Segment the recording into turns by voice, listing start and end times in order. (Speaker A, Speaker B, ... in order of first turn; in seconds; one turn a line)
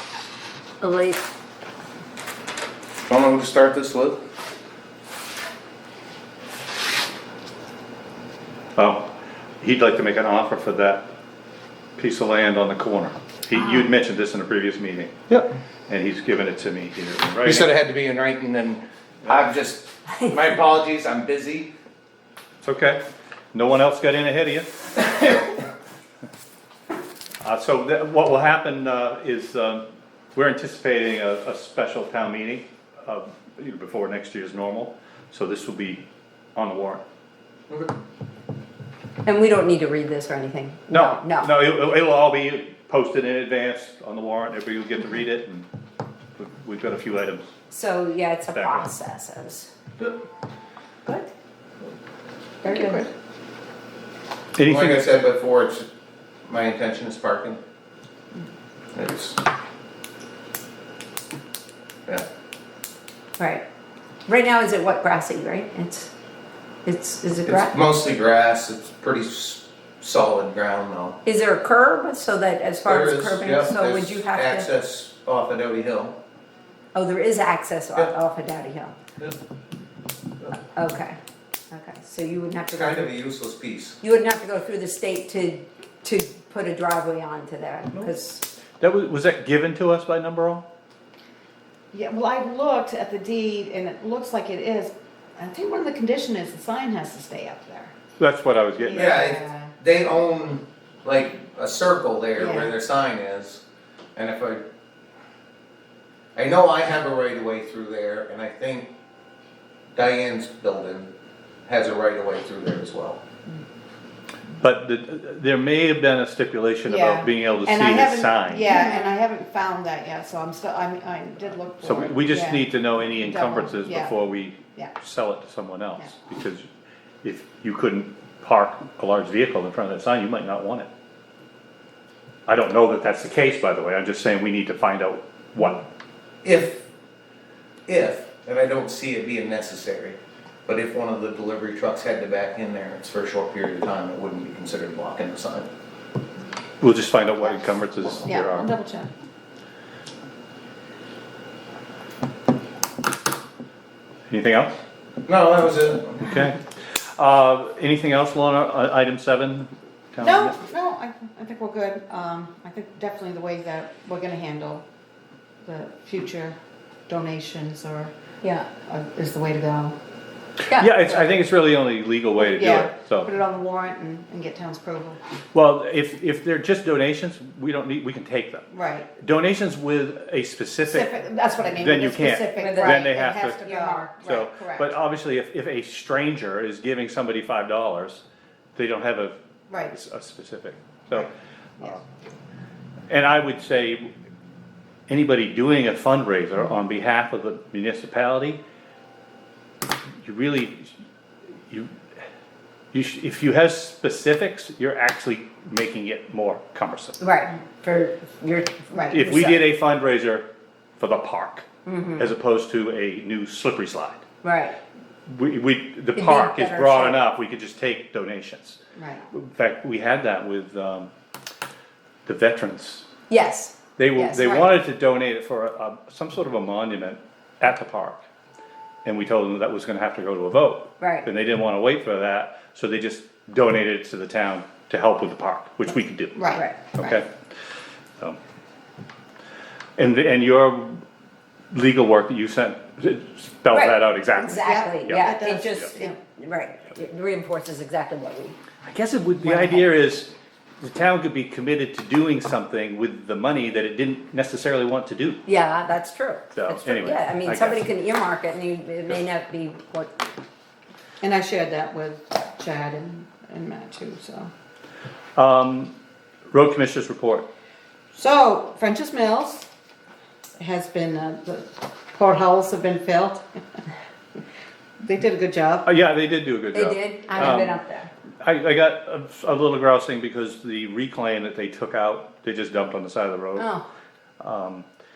Speaker A: 0.8-1.2
Speaker B: 3.1-4.2
Speaker C: 8.8-11.1
Speaker C: 12.0-17.7
Speaker B: 17.4-21.7
Speaker C: 22.6-23.0
Speaker C: 23.5-24.7
Speaker C: 27.4-37.0
Speaker A: 39.2-41.5
Speaker C: 40.9-45.7
Speaker C: 46.4-47.5
Speaker A: 47.7-49.7
Speaker C: 48.5-48.9
Speaker A: 51.0-51.3
Speaker A: 52.6-53.1
Speaker D: 52.6-53.1
Speaker C: 54.6-55.1
Speaker B: 54.6-55.9
Speaker B: 56.5-57.6
Speaker B: 58.9-59.4
Speaker A: 63.4-63.6
Speaker A: 64.3-66.1
Speaker A: 66.8-67.7
Speaker B: 67.5-71.2
Speaker A: 71.2-74.7
Speaker B: 72.8-76.2
Speaker A: 76.9-79.0
Speaker A: 80.7-81.2
Speaker A: 81.7-83.1
Speaker B: 82.7-84.0
Speaker A: 84.0-88.5
Speaker C: 88.8-90.7
Speaker D: 91.9-97.9
Speaker C: 98.2-99.2
Speaker D: 98.8-99.7
Speaker B: 98.9-103.6
Speaker D: 102.4-102.7
Speaker B: 104.2-104.6
Speaker B: 106.3-108.9
Speaker B: 109.9-111.1
Speaker B: 111.7-113.2
Speaker C: 114.6-118.7
Speaker D: 116.9-124.9
Speaker C: 121.8-126.7
Speaker C: 127.2-130.9
Speaker C: 132.5-135.8
Speaker B: 136.4-136.9
Speaker B: 137.9-145.7
Speaker C: 146.8-148.7
Speaker D: 148.2-149.1
Speaker C: 154.3-154.8
Speaker B: 155.3-156.3
Speaker C: 156.2-160.6
Speaker D: 160.2-164.8
Speaker D: 165.6-166.6
Speaker D: 167.1-168.1
Speaker D: 168.8-170.0
Speaker C: 170.7-173.3
Speaker D: 172.4-175.2
Speaker C: 175.5-181.1
Speaker D: 178.7-179.1
Speaker D: 180.9-184.9
Speaker C: 181.8-188.2
Speaker A: 182.5-183.1
Speaker A: 183.7-184.1
Speaker C: 188.8-191.3
Speaker D: 189.7-190.0
Speaker C: 193.1-194.1
Speaker C: 195.1-198.6
Speaker C: 200.2-200.9
Speaker C: 201.7-202.0
Speaker C: 202.9-207.2
Speaker A: 207.2-209.7
Speaker D: 208.9-209.2
Speaker C: 209.1-210.5
Speaker C: 211.0-214.2
Speaker A: 211.9-212.3
Speaker A: 214.4-214.8
Speaker C: 215.3-218.8
Speaker A: 216.2-217.2
Speaker D: 219.0-219.3
Speaker C: 219.3-221.1
Speaker C: 222.3-223.1
Speaker A: 223.3-224.8
Speaker C: 224.0-228.2
Speaker C: 229.1-237.3
Speaker A: 231.0-231.3
Speaker D: 236.3-237.2
Speaker C: 240.0-241.0
Speaker C: 241.7-245.8
Speaker A: 243.7-248.6
Speaker D: 244.6-246.2
Speaker C: 248.8-255.4
Speaker A: 255.5-260.2
Speaker C: 256.5-257.9
Speaker D: 261.2-264.5
Speaker C: 265.4-265.9
Speaker C: 266.5-267.5
Speaker D: 268.1-269.7
Speaker D: 270.6-273.4
Speaker D: 275.0-275.9
Speaker C: 275.9-277.8
Speaker A: 276.7-278.1
Speaker C: 278.4-283.7
Speaker A: 283.6-283.9
Speaker C: 284.4-284.9